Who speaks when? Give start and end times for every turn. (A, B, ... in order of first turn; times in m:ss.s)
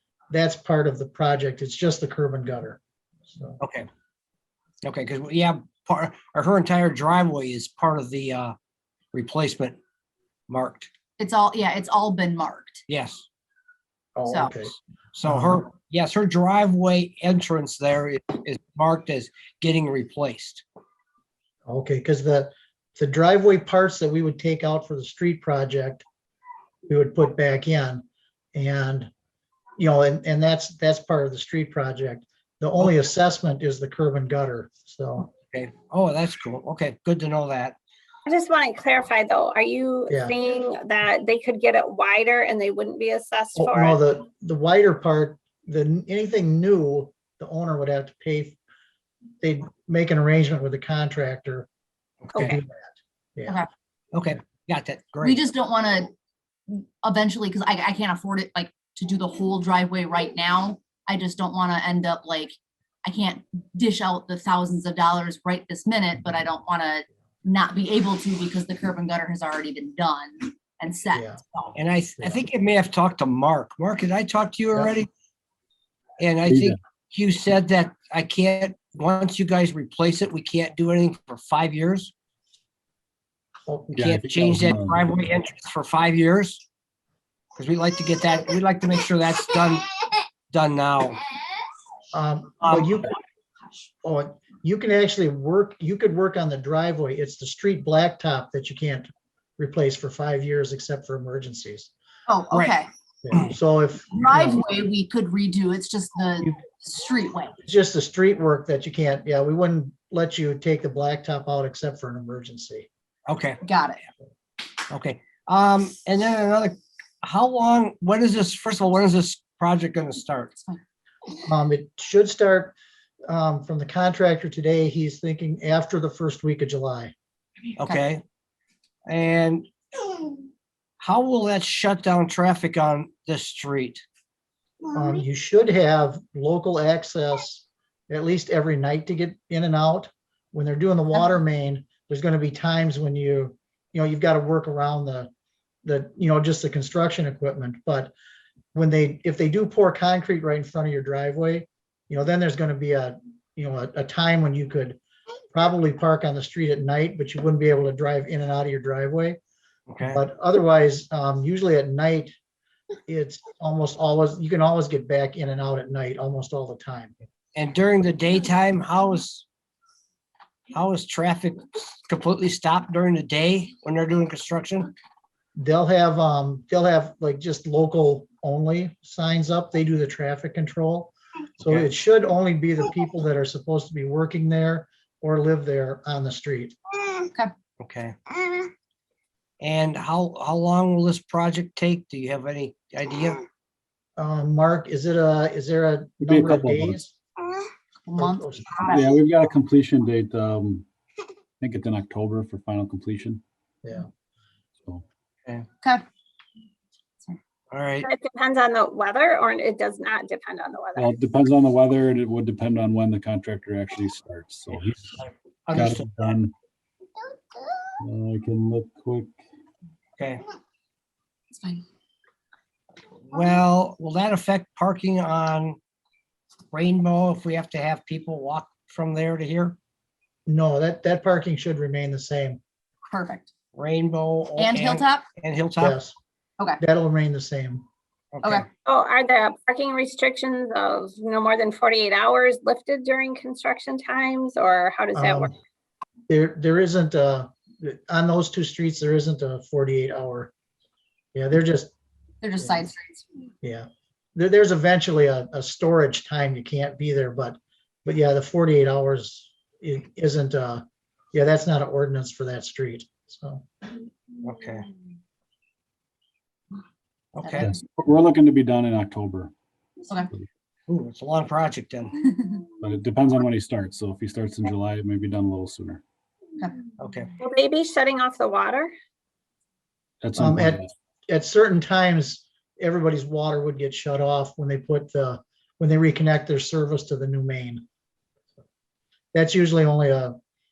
0:00.3-0:02.8 A
0:03.6-0:03.9 B
0:04.8-0:08.5 B
0:09.1-0:09.8 B
0:10.5-0:10.9 B
0:11.2-0:12.8 C
0:12.9-0:13.2 B
0:14.2-0:14.7 A
0:14.3-0:14.6 C
0:15.1-0:20.6 B
0:15.2-0:15.6 A
0:21.7-0:26.0 A
0:26.9-0:29.1 A
0:29.8-0:35.3 A
0:35.5-0:37.8 B
0:38.3-0:44.0 D
0:43.6-0:48.6 A
0:49.4-0:51.7 A
0:52.3-0:52.6 B
0:52.3-0:53.6 A
0:54.1-0:55.4 B
0:55.2-0:56.1 C
0:56.7-1:11.8 C
1:11.1-1:11.4 A
1:11.8-1:15.1 B
1:16.2-1:22.1 B
1:16.5-1:16.8 E
1:23.7-1:23.9 A
1:23.9-1:26.6 B
1:23.9-1:25.0 E
1:27.5-1:29.9 B
1:30.5-1:31.2 B
1:32.1-1:33.1 A
1:32.6-1:32.9 B
1:34.0-1:41.9 A
1:42.3-1:42.9 C
1:42.5-1:42.8 B
1:43.2-1:44.7 A
1:44.1-1:47.6 C
1:47.6-1:52.9 A
1:53.3-1:53.6 B
1:53.6-1:54.0 C
1:54.9-2:00.5 B
2:01.4-2:02.7 A
2:03.3-2:07.1 A
2:07.8-2:08.2 B
2:09.1-2:09.7 B
2:11.0-2:14.0 B
2:14.9-2:25.3 A
2:25.8-2:28.1 A
2:28.7-2:35.0 A
2:35.5-2:39.4 A
2:39.9-2:40.2 B
2:40.0-2:42.3 A
2:43.1-2:47.1 A
2:47.5-2:49.4 B
2:50.7-2:54.9 B
2:55.6-3:06.7 A
3:07.8-3:08.2 B
3:09.6-3:13.4 B
3:14.2-3:17.1 A
3:16.2-3:17.0 E
3:18.0-3:19.0 C
3:18.2-3:18.9 A
3:18.8-3:20.8 E
3:21.6-3:23.4 E
3:27.7-3:28.1 B
3:28.0-3:31.1 D
3:31.0-3:35.2 E
3:35.7-3:36.1 B
3:35.7-3:36.5 E
3:38.0-3:39.4 E
3:43.3-3:45.8 B
3:46.7-3:49.8 B
3:50.5-3:52.6 A
3:53.1-3:53.5 C
3:53.7-3:56.0 B
3:54.6-3:55.2 C
3:55.8-3:56.1 A
3:56.8-3:57.8 A
3:58.3-3:58.6 B
3:58.8-4:05.5 D
4:05.1-4:05.5 A
4:06.3-4:10.5 A
4:11.3-4:11.9 A
4:12.4-4:13.3 C
4:13.6-4:23.6 A
4:24.4-4:24.9 B
4:27.3-4:27.7 B
4:27.6-4:29.5 E
4:30.9-4:32.3 B
4:32.8-4:36.0 E
4:36.6-4:36.9 C
4:37.0-4:37.3 B
4:37.4-4:38.9 D
4:40.2-4:40.9 E
4:40.4-4:47.8 A
4:49.3-4:50.4 A